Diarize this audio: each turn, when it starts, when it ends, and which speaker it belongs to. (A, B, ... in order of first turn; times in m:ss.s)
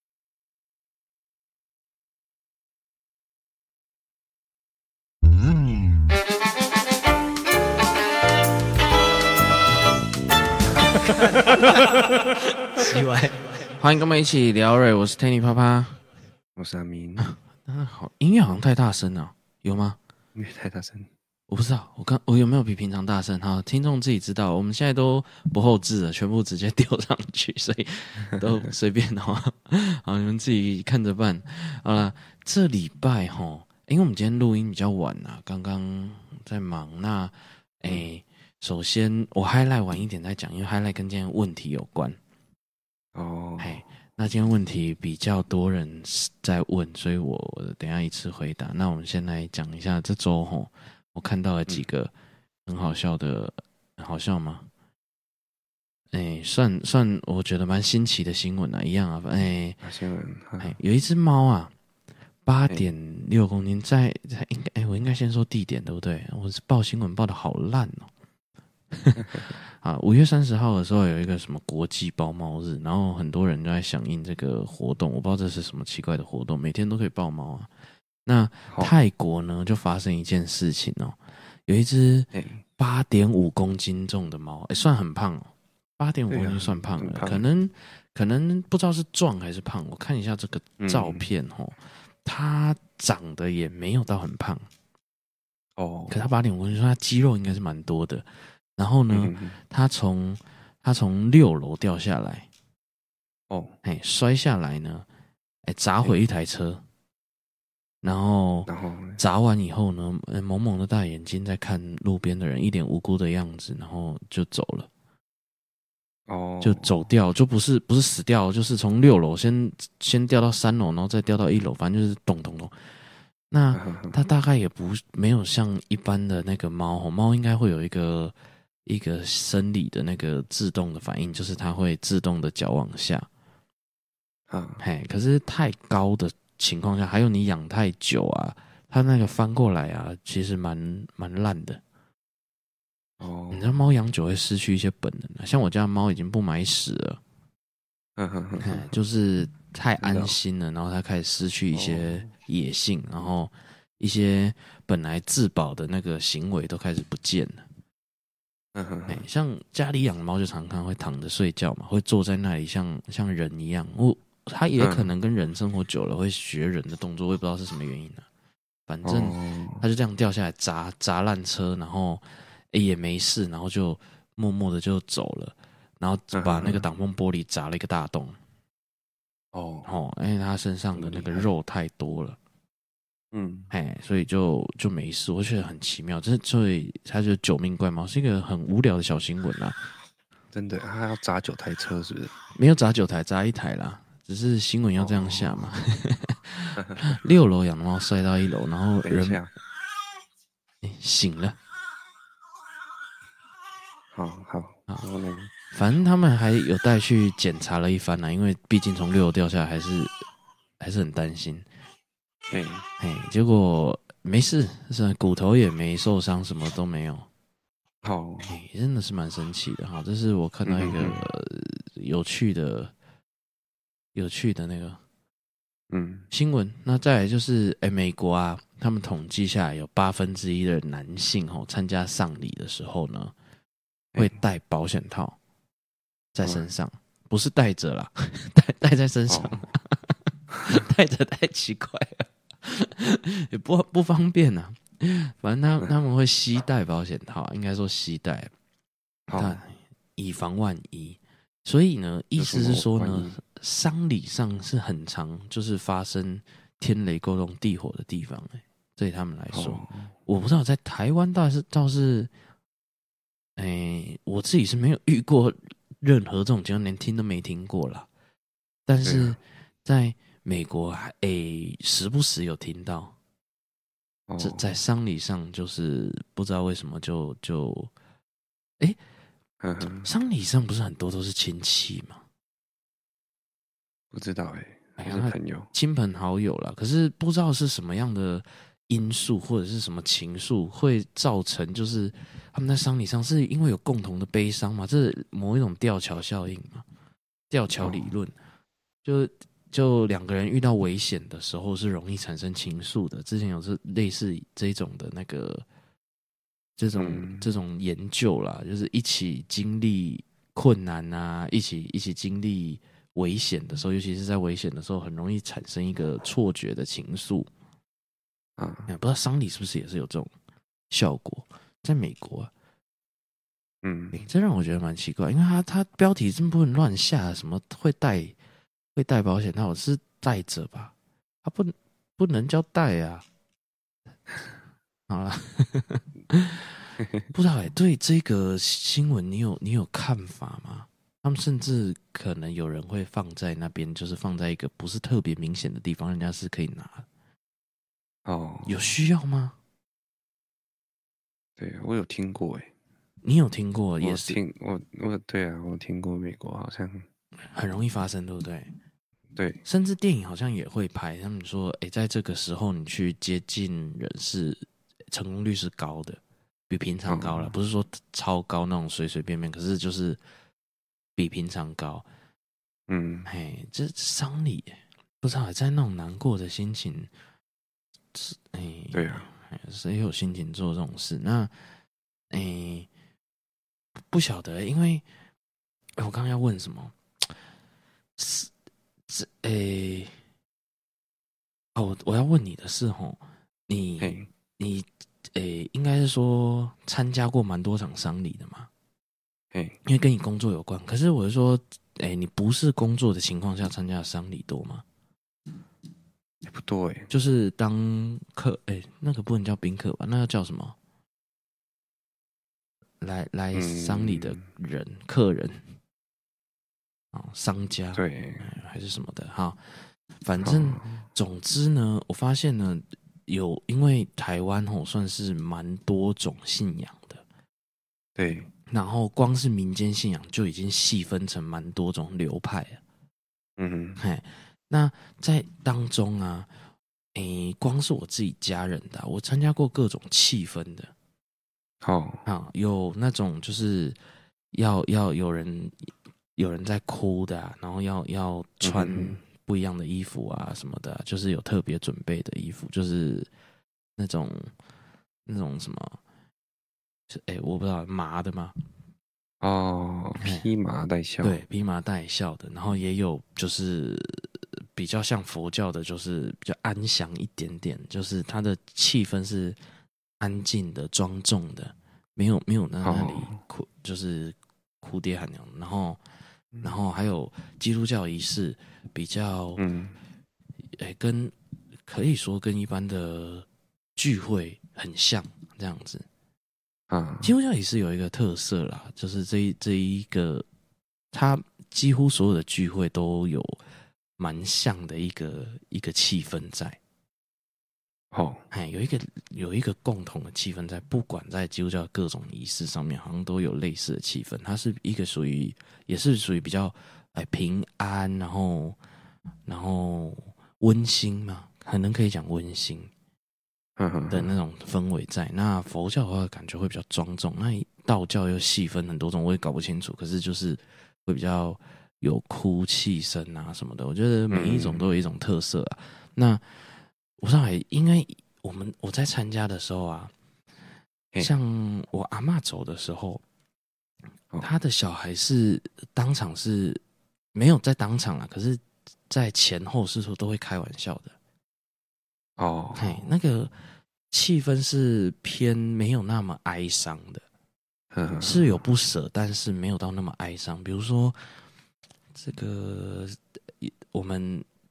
0:12.8-0:16.0 A
0:16.6-0:17.3 B
0:17.2-0:20.0 A
0:20.4-0:21.1 B
0:21.5-0:42.2 A
0:43.1-0:43.8 B
0:43.6-0:52.1 A
0:52.7-0:54.7 A
0:56.1-0:59.8 A
0:59.8-1:00.7 B
1:00.6-1:01.7 A
1:02.4-1:08.1 A
1:08.9-1:17.7 A
1:09.2-1:09.5 B
1:18.2-1:34.6 A
1:22.3-1:22.6 B
1:26.3-1:27.4 B
1:30.8-1:31.3 B
1:35.8-1:36.2 B
1:36.1-1:42.5 A
1:39.1-1:39.6 B
1:43.5-1:43.8 B
1:43.8-1:45.1 A
1:45.7-1:46.8 A
1:48.0-1:54.9 A
1:48.7-1:49.2 B
1:56.3-1:57.0 B
1:56.6-2:02.7 A
2:03.5-2:08.3 A
2:03.7-2:04.2 B
2:08.8-2:13.3 A
2:14.5-2:14.8 B
2:14.8-2:21.8 A
2:23.2-2:23.6 B
2:23.5-2:27.2 A
2:28.2-2:28.9 B
2:28.6-2:37.6 A
2:30.0-2:30.3 B
2:31.7-2:32.3 B
2:38.7-2:39.2 B
2:39.1-2:48.2 A
2:44.8-2:45.1 B
2:48.9-2:58.3 A
2:49.0-2:49.8 B
2:56.3-2:56.8 B
2:59.5-2:59.9 B
2:59.8-3:02.4 A
3:00.9-3:01.5 B
3:03.3-3:03.7 B
3:03.7-3:09.8 A
3:10.5-3:12.3 B
3:12.5-3:19.4 A
3:15.0-3:15.5 B
3:16.8-3:17.1 B
3:19.0-3:19.5 B
3:20.8-3:21.6 A
3:24.1-3:25.5 B
3:25.7-3:30.1 A
3:30.8-3:31.6 A
3:32.5-3:32.8 B
3:33.0-3:37.3 A
3:38.0-3:38.5 B
3:38.5-3:42.9 A
3:40.6-3:41.2 B
3:44.1-3:45.0 A
3:45.9-3:46.2 B
3:46.3-3:53.3 A
3:54.2-3:55.4 A
3:56.3-4:00.1 A
3:59.3-3:59.7 B
4:00.6-4:08.5 A
4:09.3-4:09.6 B
4:09.3-4:22.3 A
4:12.4-4:13.4 B
4:19.5-4:20.1 B
4:23.6-4:28.1 A
4:28.9-4:33.1 A
4:29.0-4:29.4 B
4:34.3-4:34.7 B
4:34.4-4:37.9 A
4:39.6-4:40.1 B
4:40.0-4:42.2 A
4:44.1-4:45.7 B
4:45.0-4:56.8 A
4:57.5-4:58.3 A
4:57.8-4:58.0 B
4:59.0-5:05.6 A
5:06.8-5:17.5 A
5:06.9-5:07.5 B
5:18.6-5:18.9 B
5:18.9-5:20.3 A
5:20.9-5:22.5 A
5:23.8-5:24.2 B
5:24.1-5:28.4 A
5:29.0-5:30.9 A
5:31.4-5:33.2 A
5:35.1-5:36.7 A
5:37.3-5:47.1 A
5:48.2-5:48.8 B
5:48.6-5:49.5 A
5:51.6-5:52.7 B
5:53.2-5:54.4 A
5:54.0-5:57.0 B
5:57.5-5:58.7 A
5:59.4-5:59.6 B
5:59.6-6:10.2 A
6:07.1-6:07.5 B
6:11.2-6:12.0 A
6:12.9-6:13.3 B
6:13.2-6:17.1 A
6:18.1-6:21.5 A
6:18.9-6:19.3 B
6:22.3-6:22.9 A
6:24.1-6:25.0 A
6:26.0-6:27.3 A
6:28.2-6:28.5 A
6:29.1-6:30.1 A
6:31.7-6:38.7 A
6:34.0-6:34.3 B
6:39.8-6:44.8 A
6:46.4-6:47.1 B
6:47.1-6:50.8 A
6:53.0-6:55.6 A
6:53.5-6:54.4 B
6:57.1-6:59.6 A
6:57.9-6:58.5 B
7:00.2-7:07.2 A
7:00.4-7:01.1 B
7:08.2-7:08.5 B
7:08.7-7:12.8 A
7:13.6-7:14.0 B
7:14.0-7:16.5 A
7:17.1-7:20.9 A
7:21.8-7:22.2 B
7:22.2-7:24.0 A
7:24.5-7:33.3 A
7:28.6-7:29.2 B
7:34.0-7:34.5 A
7:35.3-7:36.0 A
7:37.1-7:38.5 A
7:39.4-7:41.4 B
7:40.2-7:40.5 A
7:41.2-7:49.6 A
7:50.2-7:56.0 A
7:52.8-7:53.4 B
7:56.6-7:59.6 A
7:59.6-8:00.0 B
8:00.7-8:01.3 A
8:01.8-8:06.0 A
8:06.9-8:07.3 B
8:07.2-8:10.4 A
8:11.1-8:13.6 A
8:14.2-8:16.8 A
8:18.1-8:18.4 B
8:18.5-8:28.8 A
8:29.5-8:32.9 A
8:33.8-8:34.3 B
8:34.1-8:46.4 A
8:44.3-8:44.8 B
8:47.2-8:50.1 A
8:51.2-8:53.2 A
8:54.4-8:56.8 A
8:57.3-9:01.2 A
9:02.4-9:03.0 B
9:02.8-9:03.5 A
9:04.1-9:07.2 A
9:07.9-9:08.6 B
9:08.2-9:11.2 A
9:12.1-9:14.4 A